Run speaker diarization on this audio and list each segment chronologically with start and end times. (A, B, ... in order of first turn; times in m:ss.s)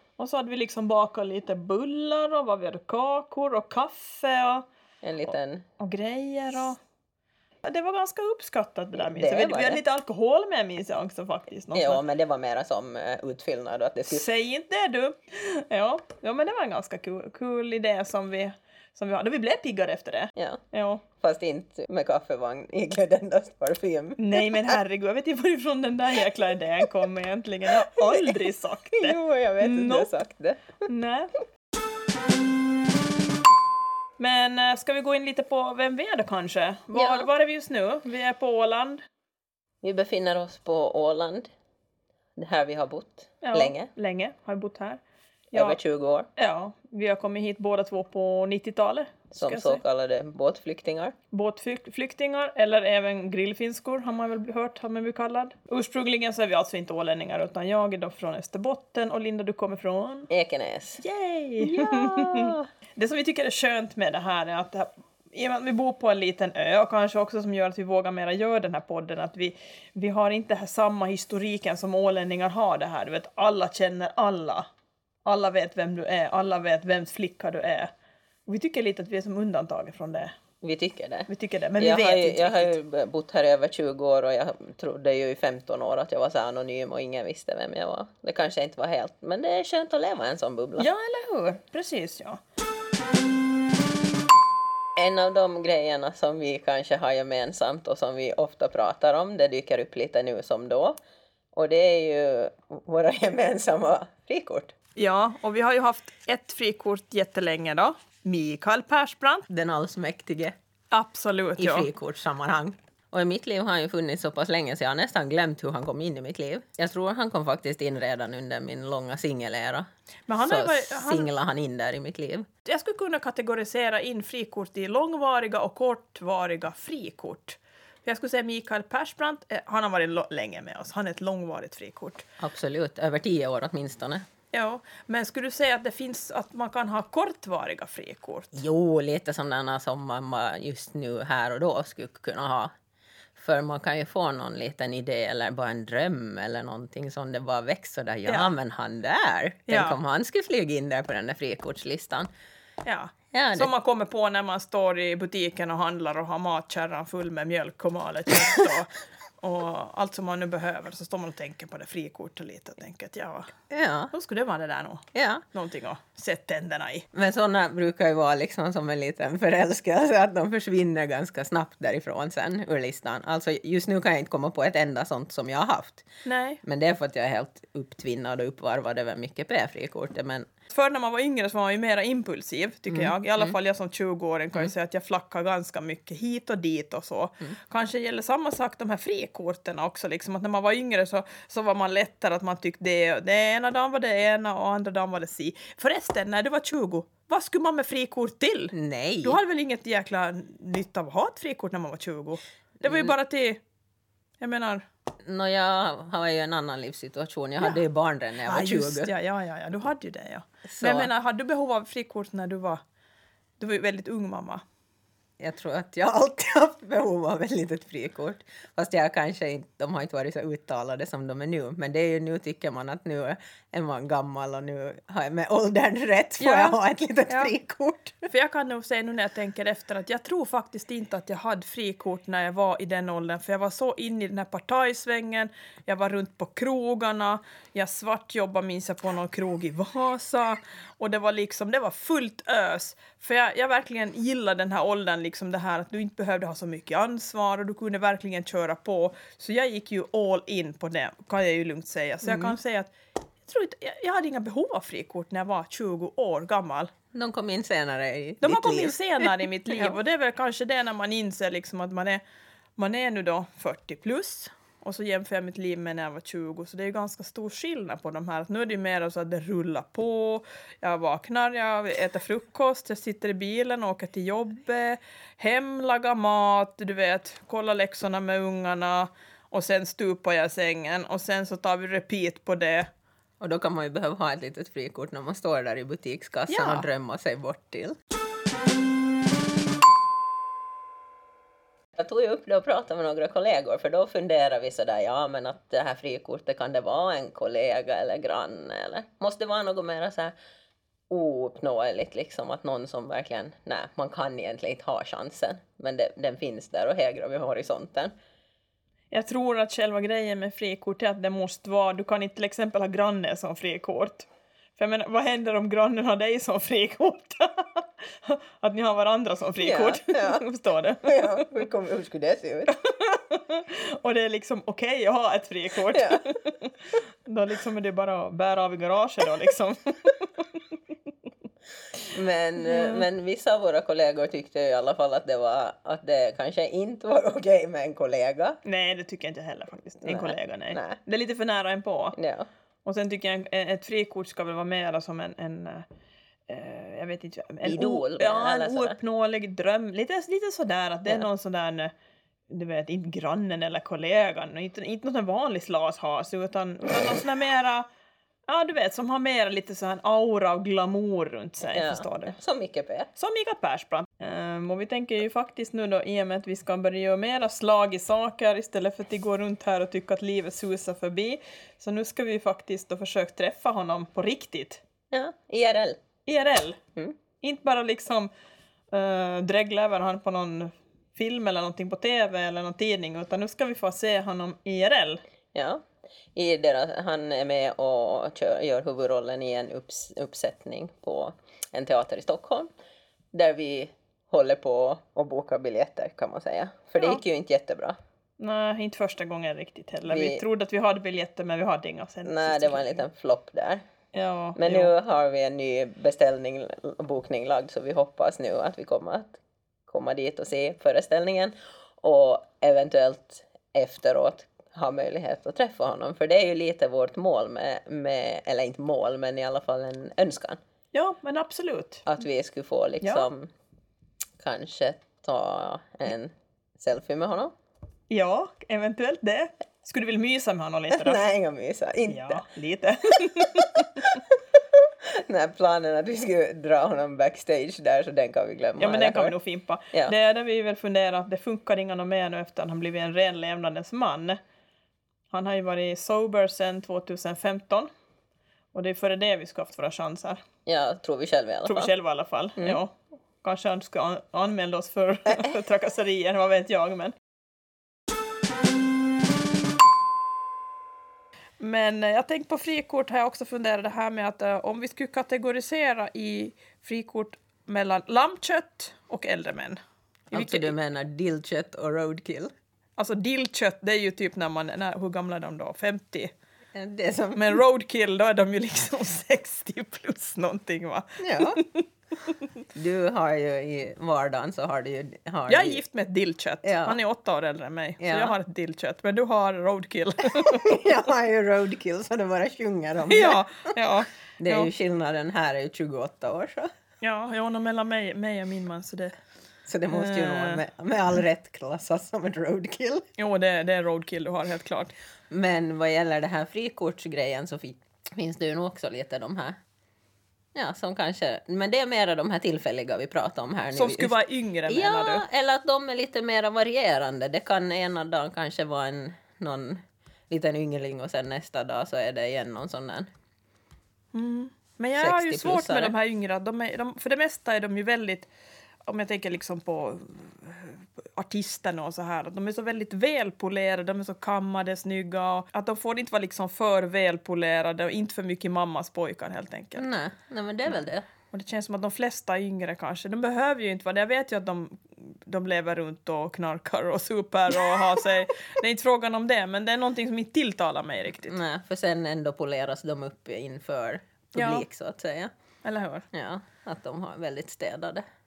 0:00.2-0:04.7 A
0:05.0-0:05.6 B
0:05.2-0:06.8 A
0:07.6-0:12.0 A
0:09.0-0:09.8 B
0:11.7-0:14.3 B
0:14.1-0:21.0 A
0:21.2-0:24.7 B
0:24.2-0:30.1 A
0:27.8-0:28.4 B
0:28.9-0:30.8 B
0:30.9-0:31.3 A
0:34.2-0:39.0 A
0:36.9-0:37.3 B
0:39.8-0:41.5 B
0:42.4-0:43.9 B
0:43.4-0:45.0 A
0:45.5-0:45.8 A
0:45.5-0:46.3 B
0:46.4-0:49.8 A
0:49.3-0:51.1 B
0:51.3-1:00.3 A
1:00.3-1:01.0 B
1:01.0-1:14.7 A
1:01.6-1:02.6 B
1:15.2-1:17.9 A
1:18.5-1:20.3 A
1:20.6-1:30.9 B
1:21.3-1:22.8 A
1:30.8-1:32.4 A
1:35.0-1:41.0 B
1:41.6-1:44.7 B
1:45.0-1:49.5 A
1:49.5-1:50.6 B
1:50.9-1:51.9 A
1:51.6-1:59.9 B
2:00.3-2:01.3 A
2:00.4-2:02.5 B
2:02.6-2:12.2 A
2:12.4-2:14.2 B
2:14.5-2:18.6 A
2:18.5-2:22.7 B
2:23.4-2:32.3 B
2:28.2-2:28.6 A
2:29.7-2:30.0 A
2:32.8-2:43.5 A
2:33.3-2:33.7 B
2:43.7-2:44.1 B
2:44.1-2:47.1 A
2:45.1-2:45.4 B
2:47.1-2:56.1 B
2:56.2-2:56.6 A
2:56.6-3:00.5 B
3:00.7-3:23.6 A
3:02.9-3:03.6 B
3:18.7-3:19.4 B
3:22.8-3:23.1 B
3:24.4-3:24.9 A
3:25.2-3:29.1 B
3:27.6-3:27.8 A
3:28.4-3:32.8 A
3:30.7-3:31.1 B
3:33.6-3:34.6 A
3:35.4-3:48.3 B
3:46.4-3:47.5 A
3:48.2-4:12.9 A
4:12.2-4:12.6 B
4:13.4-4:16.9 A
4:17.1-4:20.0 B
4:18.4-4:22.2 A
4:22.8-4:42.9 A
4:43.4-4:48.0 B
4:46.5-4:46.9 A
4:52.0-5:00.3 B
5:01.1-5:08.1 B
5:09.1-5:21.6 A
5:19.6-5:20.4 B
5:21.0-5:22.8 B
5:22.7-5:30.8 A
5:25.9-5:26.3 B
5:32.1-5:38.6 B
5:32.6-5:33.1 A
5:38.6-5:42.2 A
5:40.0-5:41.0 B
5:42.1-5:42.5 B
5:42.8-5:45.9 A
5:46.5-5:51.9 A
5:47.6-5:49.0 B
5:52.5-5:57.9 A
5:58.5-6:02.4 A
6:01.6-6:03.1 B
6:03.2-6:14.8 A
6:15.1-6:16.0 B
6:16.2-6:16.8 A
6:17.4-6:18.3 A
6:18.9-6:25.2 A
6:25.5-6:25.8 B
6:26.4-6:32.7 B
6:33.3-6:38.0 B
6:37.0-6:37.2 A
6:38.4-6:43.1 A
6:40.1-6:40.4 B
6:42.2-6:43.8 B
6:44.1-6:44.9 A
6:44.6-7:00.6 B
7:00.9-7:02.1 A
7:02.1-7:03.5 B
7:03.0-7:03.3 A
7:04.4-7:07.5 B
7:08.1-7:11.2 A
7:10.9-7:12.4 B
7:12.1-7:14.1 A
7:15.1-7:19.4 B
7:18.8-7:24.4 A
7:25.3-7:27.9 A
7:28.7-7:30.4 A
7:30.6-7:31.9 B
7:31.6-7:37.1 A
7:41.6-7:49.8 A
7:50.3-7:52.5 B
7:50.3-7:50.8 A
7:53.0-7:56.3 A
7:56.8-7:57.6 B
7:57.4-8:02.6 A
8:01.2-8:01.6 B
8:02.8-8:05.8 B
8:05.5-8:10.9 A
8:06.6-8:07.0 B
8:08.0-8:08.4 B
8:10.4-8:13.4 B
8:13.1-8:14.7 A
8:14.4-8:16.7 B
8:17.0-8:19.1 A
8:19.7-8:23.0 B
8:19.9-8:20.6 A
8:23.2-8:24.9 A
8:25.3-8:29.5 B
8:30.5-8:34.1 B
8:33.7-8:35.3 A
8:34.7-8:43.1 B
8:44.1-8:48.3 A
8:45.0-8:45.9 B
8:48.8-8:59.9 A
8:59.8-9:01.0 B
9:00.7-9:11.4 A
9:11.2-9:15.3 B
9:14.4-9:14.6 A
9:15.6-9:16.1 A
9:16.1-9:18.0 B